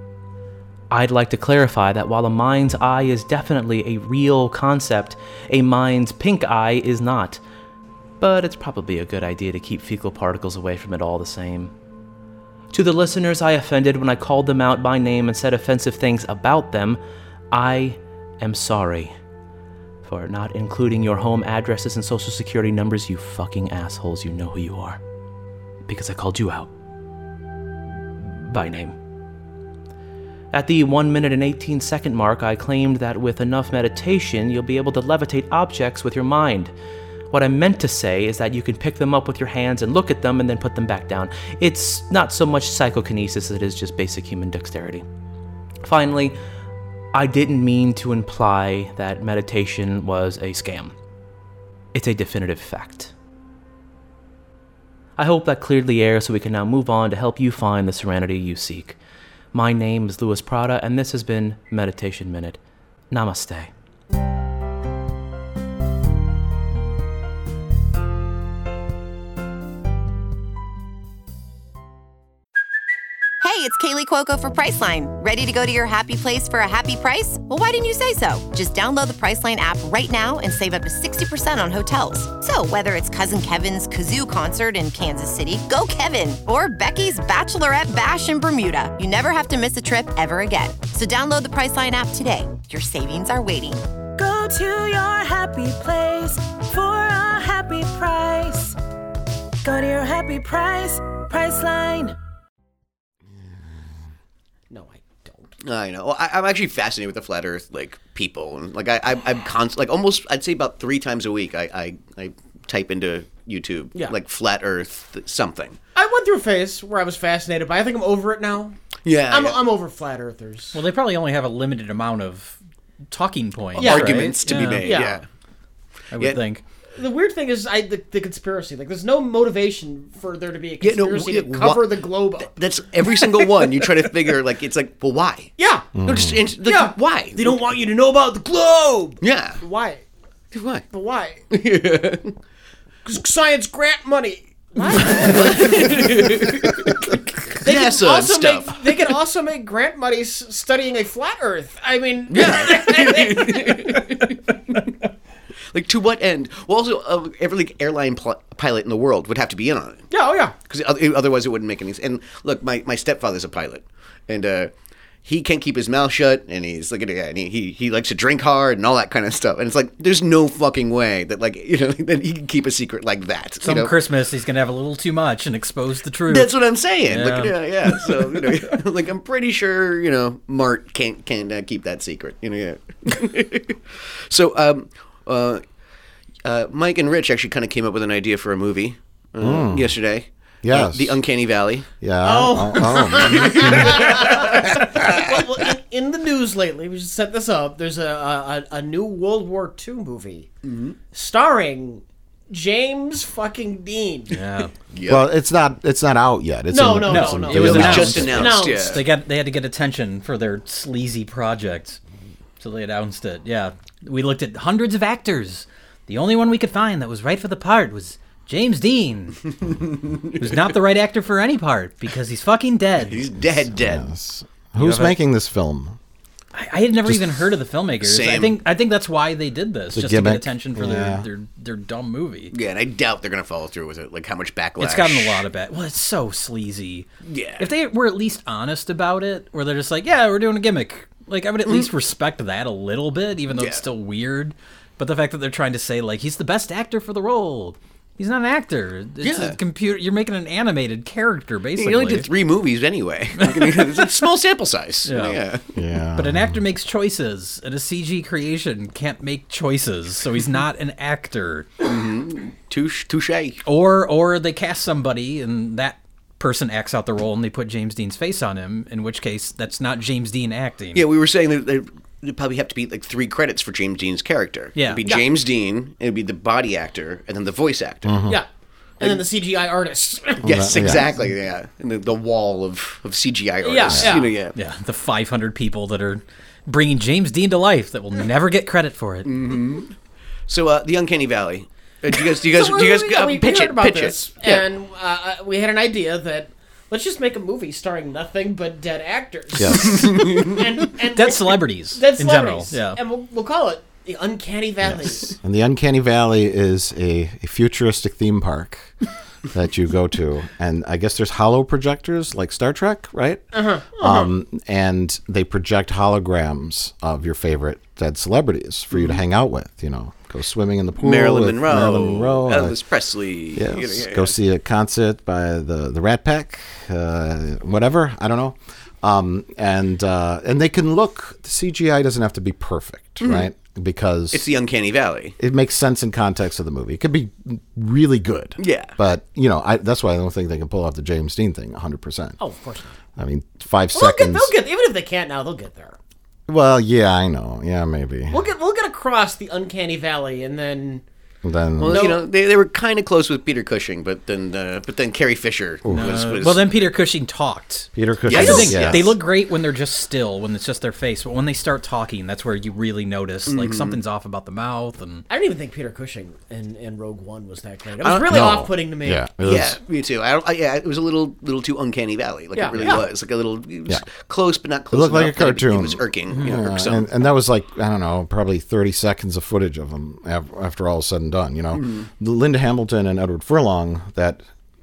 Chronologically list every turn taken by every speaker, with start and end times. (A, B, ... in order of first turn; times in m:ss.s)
0:00.9-0:07.4 A
0:08.2-0:11.7 A
0:12.7-0:17.0 A
0:17.5-0:19.1 A
0:20.0-0:25.0 A
0:25.8-0:26.7 A
0:28.2-0:29.0 A
0:30.5-0:36.7 A
0:37.3-0:45.0 A
0:45.8-0:46.4 A
0:47.1-0:50.9 A
0:51.9-0:53.1 A
0:55.2-0:59.0 A
0:59.5-1:02.6 A
1:03.1-1:03.7 A
1:13.4-1:33.8 B
1:34.2-1:38.8 C
1:39.6-1:42.2 C
1:44.7-1:45.5 D
1:45.6-1:55.8 E
1:55.9-1:58.8 D
1:59.0-1:59.6 E
1:59.3-2:00.8 D
2:00.7-2:02.6 F
2:03.1-2:05.0 F
2:03.8-2:05.2 D
2:03.8-2:05.2 E
2:06.1-2:06.6 F
2:07.0-2:12.6 D
2:10.8-2:17.6 E
2:13.1-2:13.4 D
2:15.6-2:15.9 D
2:16.0-2:16.4 G
2:16.6-2:20.0 D
2:19.2-2:19.6 E
2:20.5-2:20.8 E
2:20.9-2:21.4 D
2:21.5-2:22.3 E
2:23.0-2:26.9 D
2:25.0-2:27.0 E
2:27.5-2:29.2 E
2:27.6-2:34.0 D
2:32.3-2:34.4 E
2:35.7-2:40.1 E
2:40.1-2:40.5 D
2:40.7-2:44.7 E
2:45.2-2:53.9 E
2:53.6-2:58.1 F
2:56.3-3:05.6 E
3:06.4-3:11.9 E
3:09.4-3:10.0 G
3:10.6-3:11.2 G
3:12.0-3:14.3 G
3:12.2-3:20.5 D
3:13.3-3:14.5 E
3:20.6-3:21.0 E
3:21.1-3:24.4 D
3:24.3-3:24.7 F
3:24.9-3:25.2 E
3:25.1-3:28.6 G
3:26.7-3:29.1 D
3:27.0-3:32.0 F
3:27.5-3:29.0 E
3:32.6-3:39.4 F
3:39.9-3:40.6 E
3:40.4-3:43.3 F
3:43.0-3:44.1 E
3:43.7-3:46.0 G
3:44.8-3:45.2 F
3:46.5-3:52.5 F
3:48.0-3:48.6 E
3:49.9-3:51.3 G
3:52.5-3:55.4 E
3:54.8-3:57.1 F
3:57.2-3:57.7 E
3:57.6-4:12.3 F
4:03.5-4:03.8 E
4:09.2-4:09.6 E
4:11.8-4:15.6 E
4:13.4-4:13.8 F
4:15.0-4:15.4 F
4:15.8-4:16.6 G
4:16.2-4:21.7 F
4:21.8-4:23.6 E
4:23.6-4:31.1 F
4:30.9-4:38.2 E
4:34.8-4:35.1 F
4:38.0-4:38.4 G
4:39.0-4:41.0 D
4:40.4-4:41.1 G
4:40.4-4:44.5 E
4:43.6-4:44.3 D
4:43.9-4:44.1 G
4:44.5-4:49.4 F
4:49.2-4:49.9 E
4:50.5-4:54.6 E
4:52.3-5:05.4 D
4:59.5-5:00.2 G
5:01.0-5:03.0 F
5:04.8-5:08.9 G
5:09.5-5:22.8 G
5:13.5-5:14.3 D
5:18.9-5:19.2 E
5:21.0-5:24.3 E
5:23.5-5:34.5 G
5:33.2-5:33.5 E
5:34.3-5:35.3 E
5:35.4-5:42.4 G
5:38.6-5:38.9 E
5:42.4-5:42.9 D
5:43.2-5:44.5 G
5:43.9-5:46.0 D
5:46.5-5:48.5 G
5:48.3-5:51.0 D
5:51.4-5:52.2 G
5:51.8-5:56.7 E
5:51.9-5:52.2 D
5:55.8-5:56.2 G
5:55.9-6:05.2 F
5:58.0-5:59.2 G
5:58.3-5:59.2 E
5:58.4-5:58.7 D
6:03.5-6:04.0 E
6:05.3-6:09.2 D
6:08.0-6:08.7 E
6:08.3-6:09.8 G
6:09.4-6:17.1 E
6:12.5-6:13.0 D
6:14.9-6:24.4 G
6:21.7-6:22.1 E